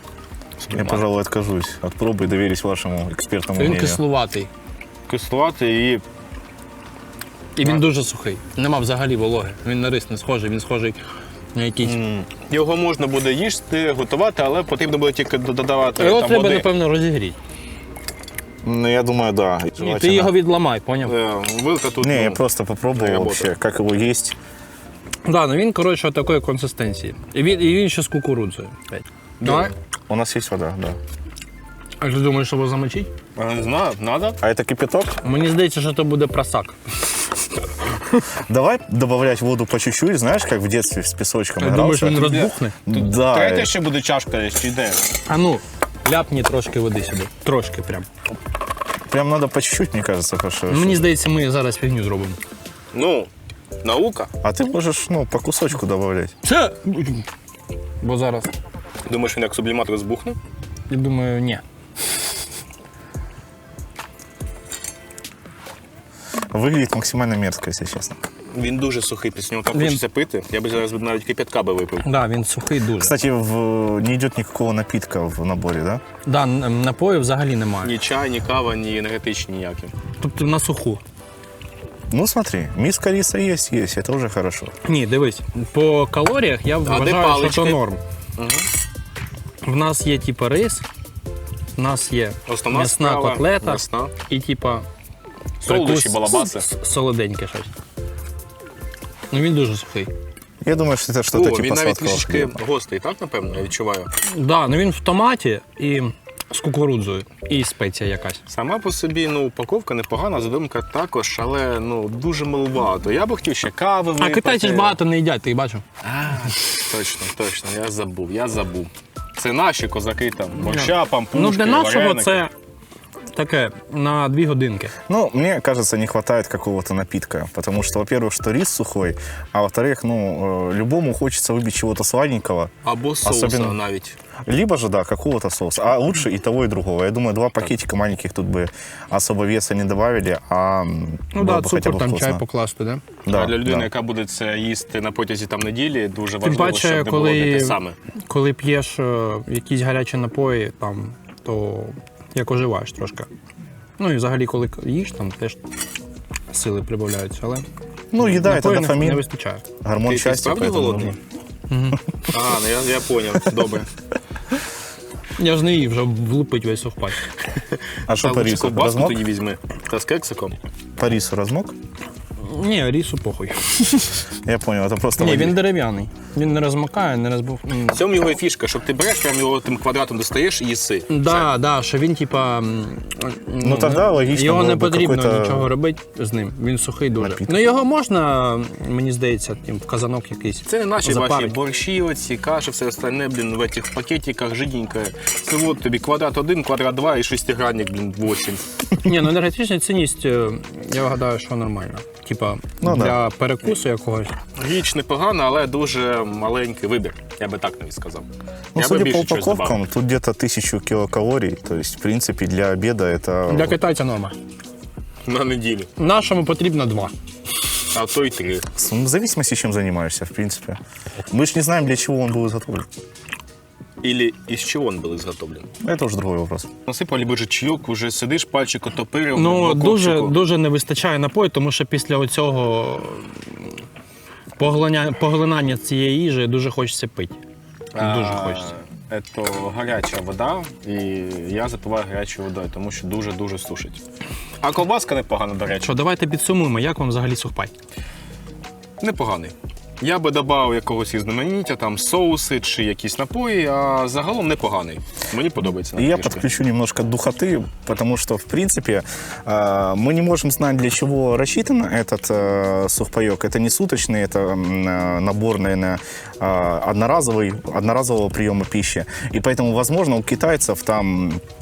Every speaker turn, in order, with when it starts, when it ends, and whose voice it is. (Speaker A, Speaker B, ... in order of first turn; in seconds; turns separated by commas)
Speaker A: 0.6-1.0, Speaker B: 0.7-4.0, Speaker C: 3.6-4.5, Speaker A: 5.1-6.0, Speaker C: 7.5-11.0, Speaker C: 11.5-11.9, Speaker A: 11.8-16.7, Speaker C: 16.0-17.4, Speaker B: 18.6-20.4, Speaker C: 19.8-21.1, Speaker A: 21.1-22.4, Speaker B: 22.0-24.4, Speaker A: 22.9-23.5, Speaker C: 25.2-29.7, Speaker A: 29.4-29.7, Speaker B: 30.1-31.0, Speaker C: 32.0-33.1, Speaker A: 33.4-34.4, Speaker B: 34.4-35.2, Speaker C: 35.2-36.8, Speaker B: 38.4-42.2, Speaker C: 41.6-42.8, Speaker A: 42.1-45.1, Speaker B: 42.9-43.7, Speaker C: 45.3-48.1, Speaker B: 49.1-51.1, Speaker C: 50.7-52.4, Speaker A: 52.9-53.3, Speaker A: 53.8-54.3, Speaker B: 54.4-56.3, Speaker C: 56.4-57.2, Speaker C: 58.0-58.5, Speaker A: 59.0-60.4, Speaker C: 60.9-61.6, Speaker B: 66.5-68.2, Speaker A: 68.5-72.1, Speaker C: 69.7-70.0, Speaker C: 72.0-73.1, Speaker B: 73.0-76.0, Speaker C: 76.2-78.0, Speaker A: 77.8-79.9, Speaker C: 80.2-81.0, Speaker B: 82.1-84.7, Speaker C: 84.8-88.0, Speaker A: 86.8-87.8, Speaker A: 88.4-88.7, Speaker C: 89.6-90.8, Speaker C: 91.8-94.8, Speaker A: 92.5-94.1, Speaker A: 95.6-96.7, Speaker C: 95.6-97.7, Speaker C: 99.3-100.1, Speaker B: 100.6-102.6, Speaker A: 101.3-104.1, Speaker C: 104.2-108.4, Speaker A: 108.5-115.0, Speaker C: 114.2-115.8, Speaker A: 116.0-122.5, Speaker C: 120.6-122.5, Speaker C: 123.3-124.9, Speaker B: 125.1-132.7, Speaker A: 132.8-134.1, Speaker B: 133.2-133.8, Speaker B: 134.4-142.4, Speaker C: 141.3-143.0, Speaker B: 143.2-143.9, Speaker A: 143.3-147.9, Speaker C: 146.4-153.3, Speaker C: 154.0-155.6, Speaker C: 156.5-157.7, Speaker B: 158.1-159.2, Speaker C: 158.2-159.6, Speaker B: 159.8-161.2, Speaker A: 160.0-161.2, Speaker C: 161.7-162.0, Speaker A: 162.3-163.9, Speaker C: 165.4-167.2, Speaker B: 168.1-169.2, Speaker A: 168.2-170.6, Speaker B: 171.0-171.7, Speaker C: 172.4-174.1, Speaker B: 174.4-175.6, Speaker C: 175.2-178.0, Speaker A: 177.9-181.5, Speaker C: 181.1-191.5, Speaker B: 183.6-185.7, Speaker B: 187.2-187.7, Speaker A: 190.7-198.6, Speaker C: 199.0-204.3, Speaker B: 202.8-203.2, Speaker A: 204.6-209.8, Speaker B: 208.7-213.8, Speaker C: 213.5-214.3, Speaker A: 215.2-215.9, Speaker C: 216.0-217.1, Speaker A: 217.9-218.6, Speaker B: 218.7-220.8, Speaker B: 221.3-222.9, Speaker A: 224.0-225.7, Speaker B: 225.8-226.7, Speaker A: 226.9-230.4, Speaker C: 229.3-233.4, Speaker C: 234.6-237.3, Speaker A: 237.9-244.0, Speaker C: 238.0-238.7, Speaker A: 244.6-245.9, Speaker C: 245.8-247.7, Speaker A: 249.0-256.4, Speaker B: 255.9-271.4